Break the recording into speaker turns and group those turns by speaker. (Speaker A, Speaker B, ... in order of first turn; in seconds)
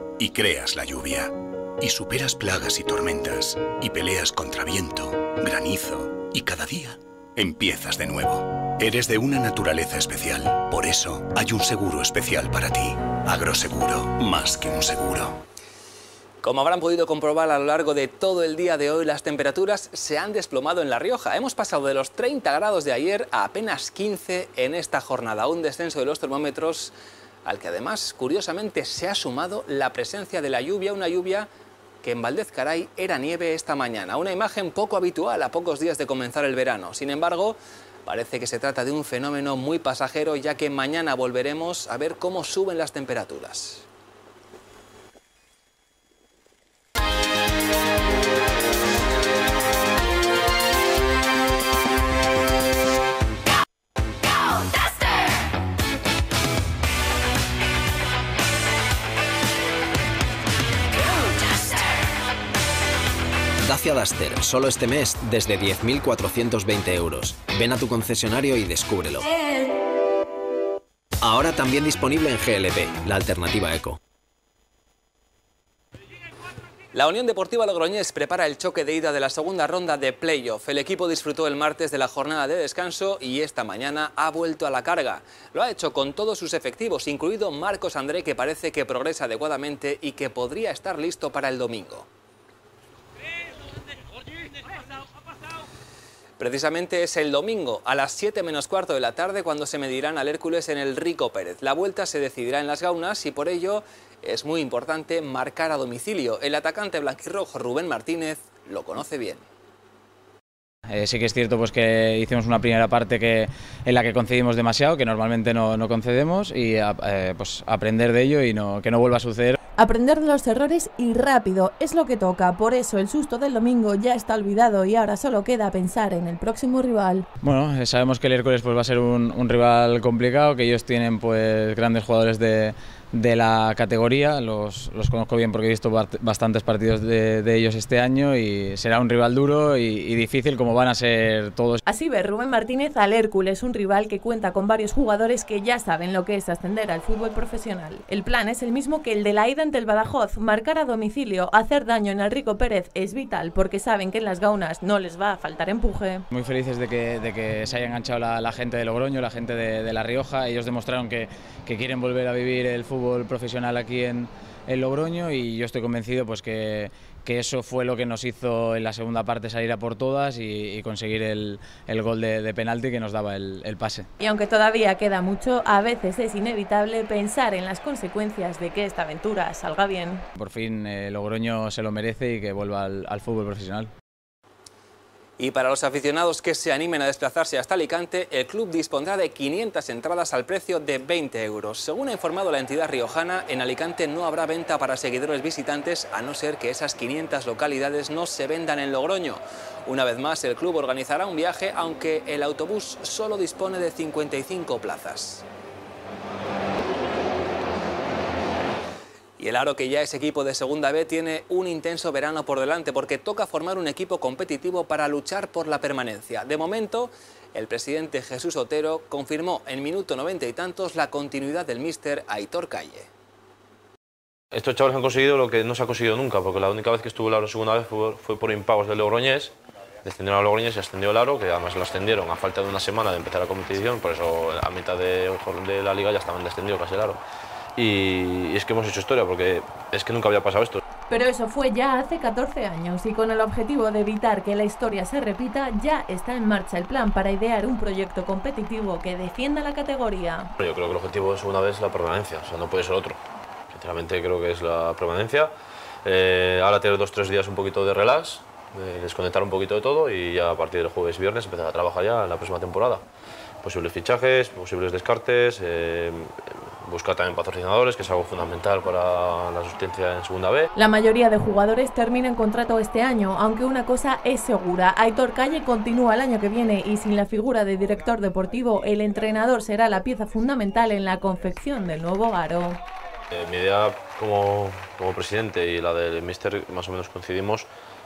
Speaker A: 0.2-15.4
Speaker B: 16.4-26.9, 27.5-31.5, 32.0-43.9, 76.9-92.1, 96.4-109.4, 185.4-205.4, 209.4-223.1
Speaker C: 63.7-69.2, 71.2-74.0
Speaker D: 110.9-119.6, 127.4-141.8, 156.3-174.1, 180.3-183.9
Speaker E: 119.8-127.3, 141.9-156.2, 174.2-180.2, 241.1-250.5, 270.8-282.8
Speaker F: 224.5-229.4, 230.1-237.2, 237.8-240.8, 250.6-251.3, 252.2-253.1, 253.7-255.2, 256.1-256.8, 257.4-258.2, 258.8-261.1, 262.2-262.9, 263.6-266.2, 266.9-270.4, 284.1-287.6